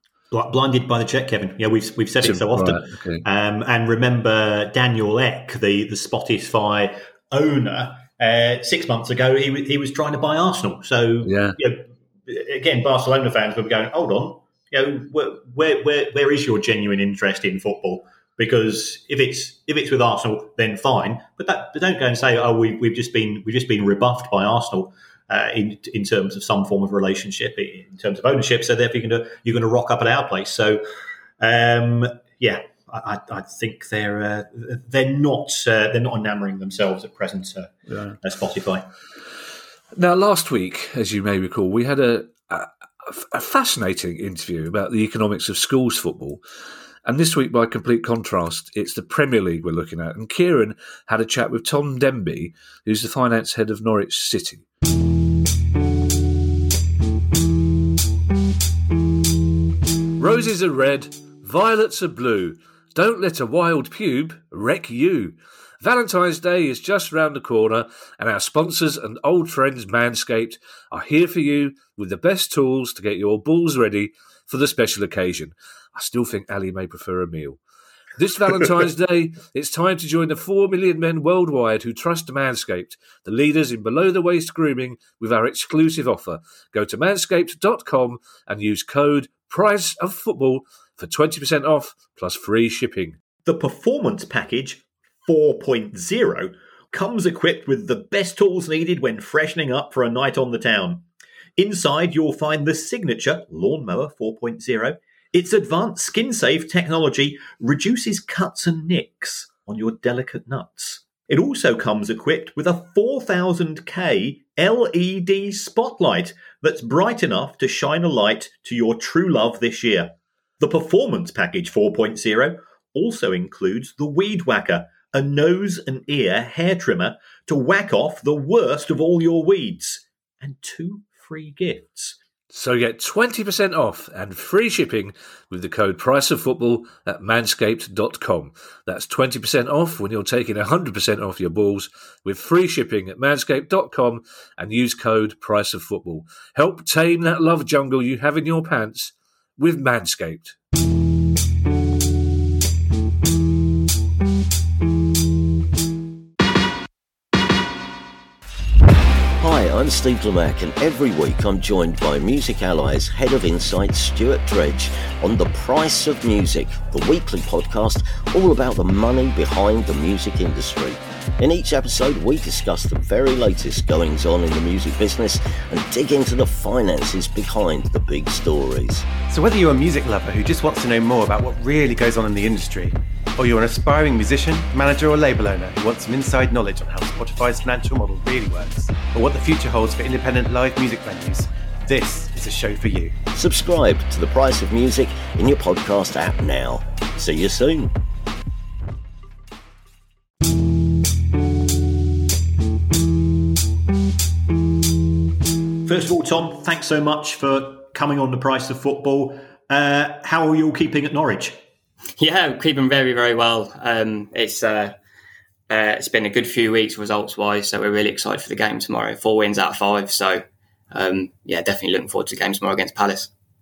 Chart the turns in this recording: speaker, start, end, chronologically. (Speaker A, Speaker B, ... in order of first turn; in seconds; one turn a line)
Speaker A: 0.3-30.8
Speaker B: 2.2-3.2
Speaker B: 11.2-11.6
Speaker A: 31.4-38.9
Speaker B: 39.9-46.4
Speaker B: 47.0-54.6
Speaker B: 60.2-77.6
Speaker B: 78.2-93.2
Speaker A: 93.4-101.0
Speaker A: 101.6-132.2
Speaker B: 132.5-150.6
Speaker C: 159.4-179.1
Speaker D: 179.3-193.1
Speaker C: 193.3-197.9
Speaker A: 205.8-211.6
Speaker E: 212.2-214.9
Speaker E: 215.7-223.3